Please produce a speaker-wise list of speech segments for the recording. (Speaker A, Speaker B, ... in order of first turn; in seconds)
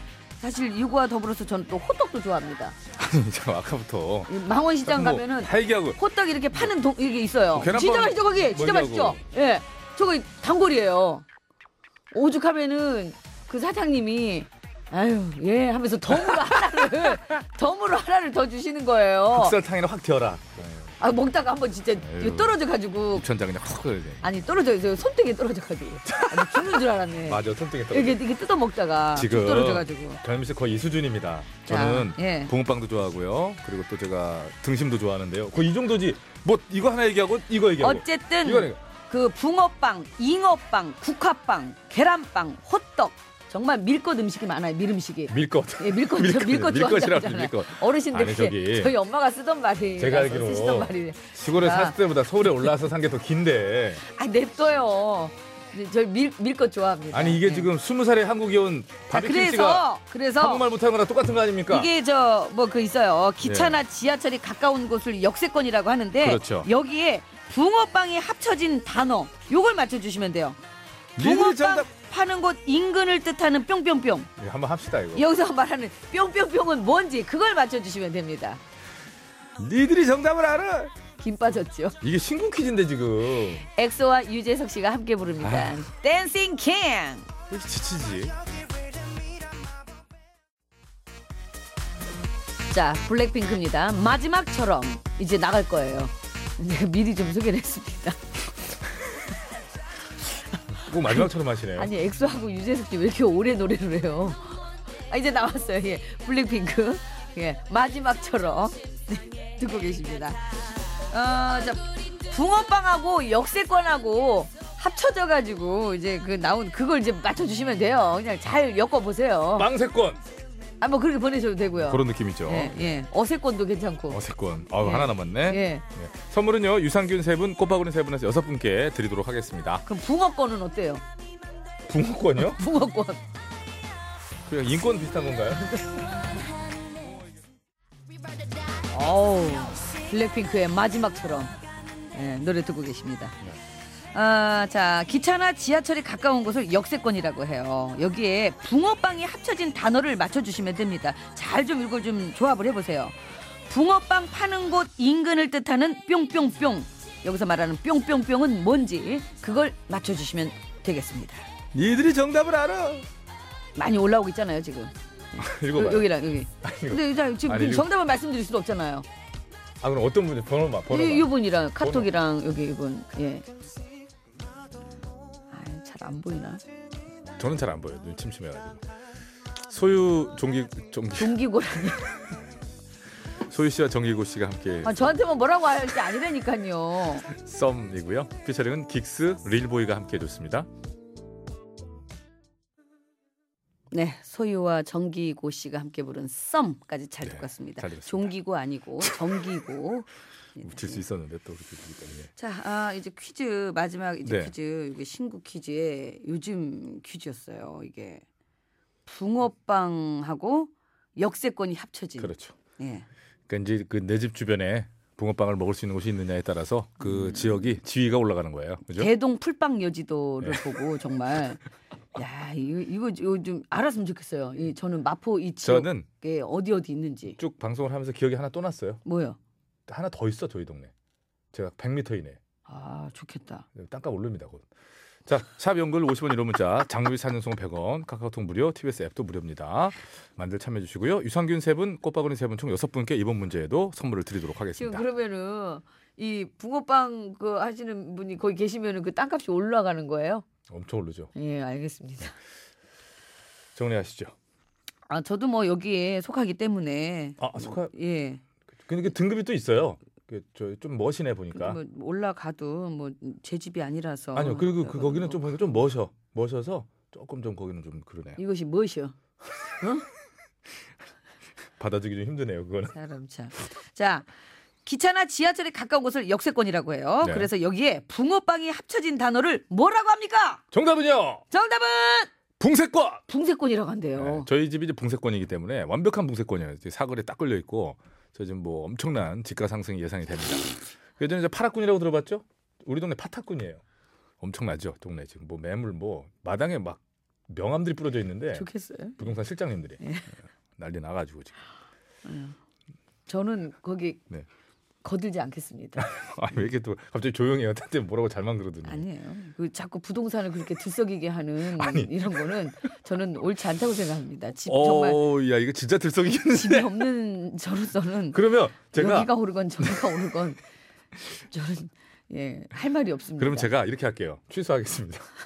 Speaker A: 0.4-2.8, 4.3-11.2, 12.1-19.6, 21.0-23.2, 24.2-30.2, 31.7-32.5, 37.8-52.0, 54.0-57.7, 59.1-60.6, 61.7-70.6, 71.2-74.3, 75.1-78.6, 81.2-82.0, 83.7-87.3, 92.7-98.2, 100.9-110.4, 111.1-119.7, 120.8-124.2, 124.8-125.8, 129.8-131.0, 132.4-133.2, 135.8-136.2, 138.9-141.6, 142.1-143.3, 144.1-161.4, 163.8-169.1, 170.9-173.4, 175.5-176.6, 181.2-182.1, 184.8-187.3, 193.9-201.0, 202.4-208.2, 209.1-213.1, 217.0-217.6, 218.9-221.6, 222.1-227.4, 229.0-229.4, 232.7-233.7, 244.8-250.4, 251.3-252.3, 255.1-258.4, 261.5-265.5, 268.4-269.1, 272.9-274.3, 274.8-280.6, 281.5-282.3, 283.3-284.5, 298.5-299.3, 300.0-300.3, 302.2-302.6, 303.3-304.2, 305.0-306.1, 308.8-315.2, 316.5-320.6, 321.3-323.7
Speaker B: 2.9-6.0, 7.5-9.2, 16.1-17.1, 19.3-20.9, 22.0-22.6, 23.1-24.3, 26.0-28.2, 29.1-38.8, 45.3-48.9, 50.0-54.0, 57.1-59.9, 60.4-61.9, 63.4-63.8, 66.2-66.7, 71.2-71.9, 74.4-75.3, 79.6-80.9, 82.0-83.6, 85.4-85.8, 87.5-88.4, 100.8-101.9, 119.5-120.2, 121.8-123.0, 124.1-129.8, 131.8-132.6, 134.4-135.8, 161.7-163.1, 165.4-167.9, 169.8-172.1, 177.4-178.8, 179.6-181.3, 183.4-185.2, 187.3-190.7, 197.2-198.3, 200.6-202.3, 204.2-204.5, 212.2-212.6, 213.5-219.1, 225.6-226.1, 227.4-229.0, 229.9-230.9, 231.5-232.4, 233.7-234.6, 235.2-245.0, 250.7-251.3, 253.8-254.3, 257.4-257.9, 258.9-261.8, 264.3-268.4, 271.8-272.9, 277.2-277.5, 280.7-281.4, 282.6-283.2, 284.1-293.8, 294.4-298.7, 299.2-300.0, 300.8-301.5, 306.0-309.0, 311.7-312.3, 314.6-317.1, 318.3-320.2, 323.4-325.3